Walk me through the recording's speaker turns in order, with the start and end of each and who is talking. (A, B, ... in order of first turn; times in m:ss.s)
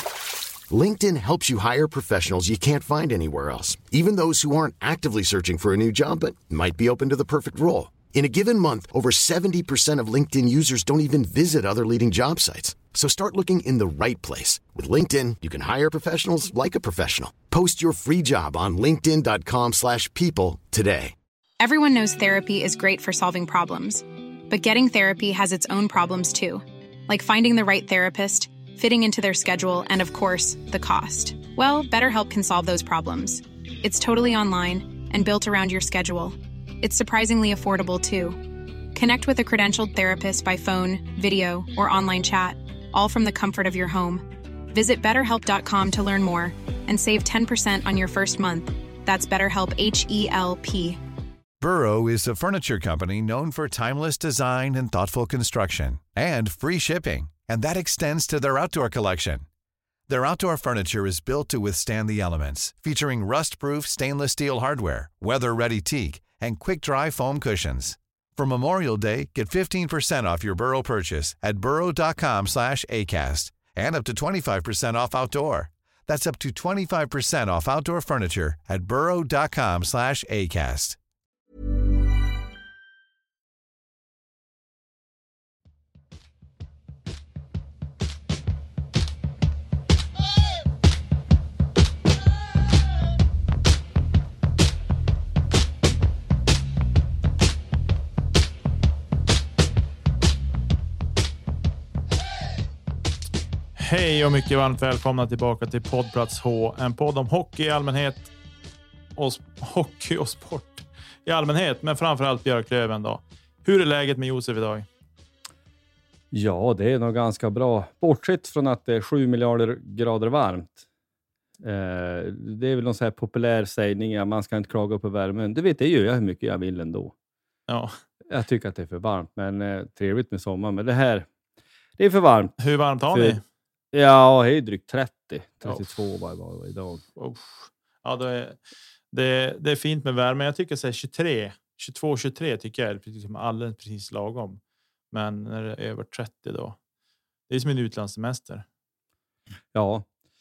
0:00.7-0:21.2 A
0:21.6-0:51.0 B
0:51.6-0:59.4 C
1:00.1-1:21.0 C
1:43.8-1:48.3 D
1:49.2-1:54.9 D
1:56.3-2:00.8 E
2:01.6-2:07.1 E
2:07.7-2:08.0 D
2:08.3-2:11.3 E
2:12.0-2:12.6 E
2:12.6-2:13.4 D
2:13.1-2:13.4 E
2:13.9-2:17.0 E
2:17.2-2:18.6 D
2:19.1-2:24.6 D
2:25.1-2:26.8 D
2:27.5-2:28.7 D
2:29.7-2:30.0 E